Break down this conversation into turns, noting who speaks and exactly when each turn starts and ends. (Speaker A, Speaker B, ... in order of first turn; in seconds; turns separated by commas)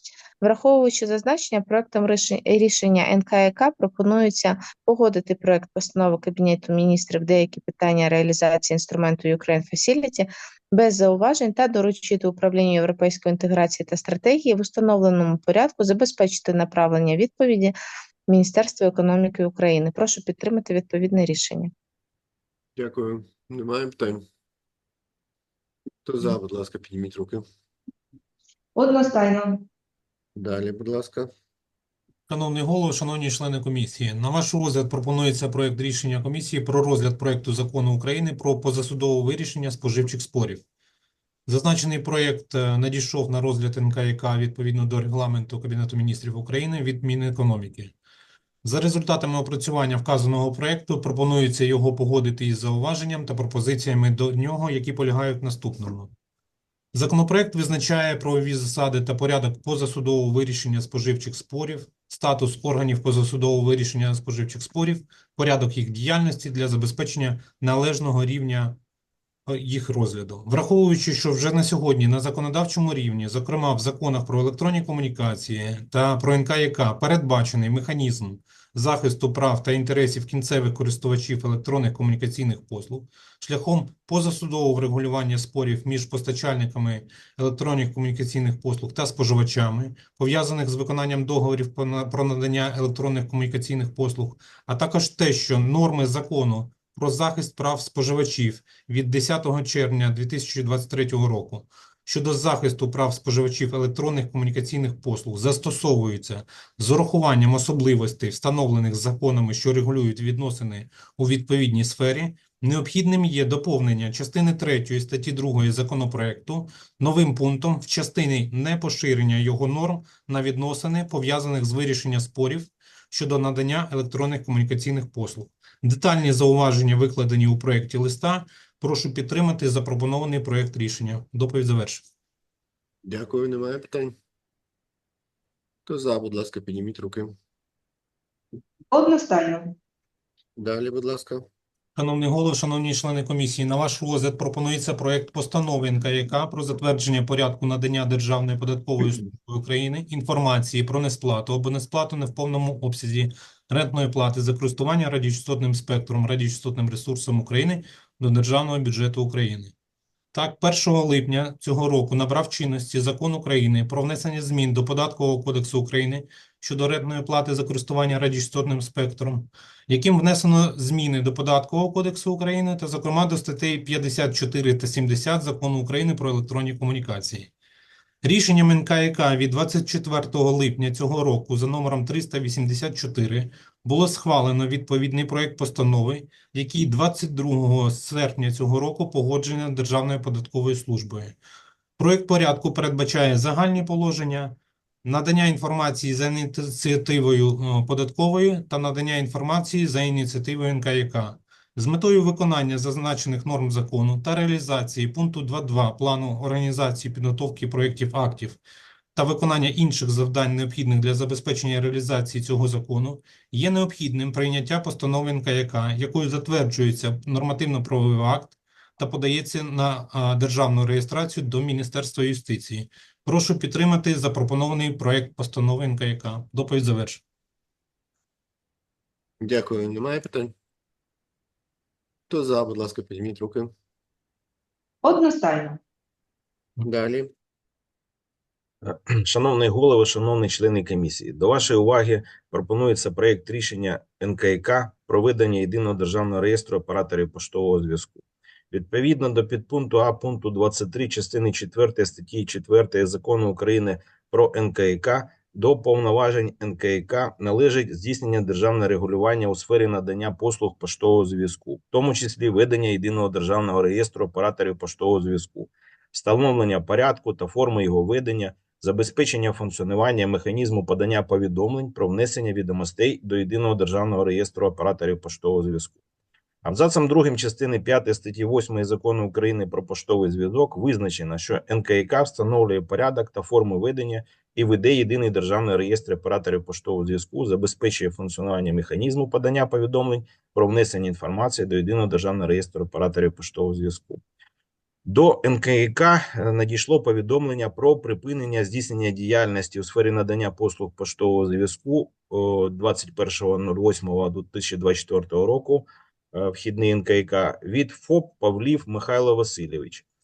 Speaker A: 0.4-17.8, Speaker A: 18.3-21.7, Speaker B: 22.8-24.2, Speaker B: 26.1-27.4, Speaker C: 28.8-29.7, Speaker B: 30.4-31.3, Speaker D: 32.3-40.6, Speaker D: 41.5-47.9, Speaker D: 48.6-56.1, Speaker D: 56.9-68.8, Speaker D: 69.5-132.0, Speaker B: 133.1-134.2, Speaker B: 135.9-137.3, Speaker C: 138.9-139.8, Speaker B: 140.6-141.5, Speaker D: 142.0-159.7, Speaker D: 160.3-177.5, Speaker D: 178.2-191.4, Speaker D: 192.0-208.6, Speaker D: 209.2-227.2, Speaker B: 229.4-230.5, Speaker B: 232.3-233.7, Speaker C: 235.0-235.8, Speaker B: 236.8-237.3, Speaker E: 238.8-248.2, Speaker E: 248.7-276.0, Speaker E: 276.6-294.2, Speaker E: 295.1-310.0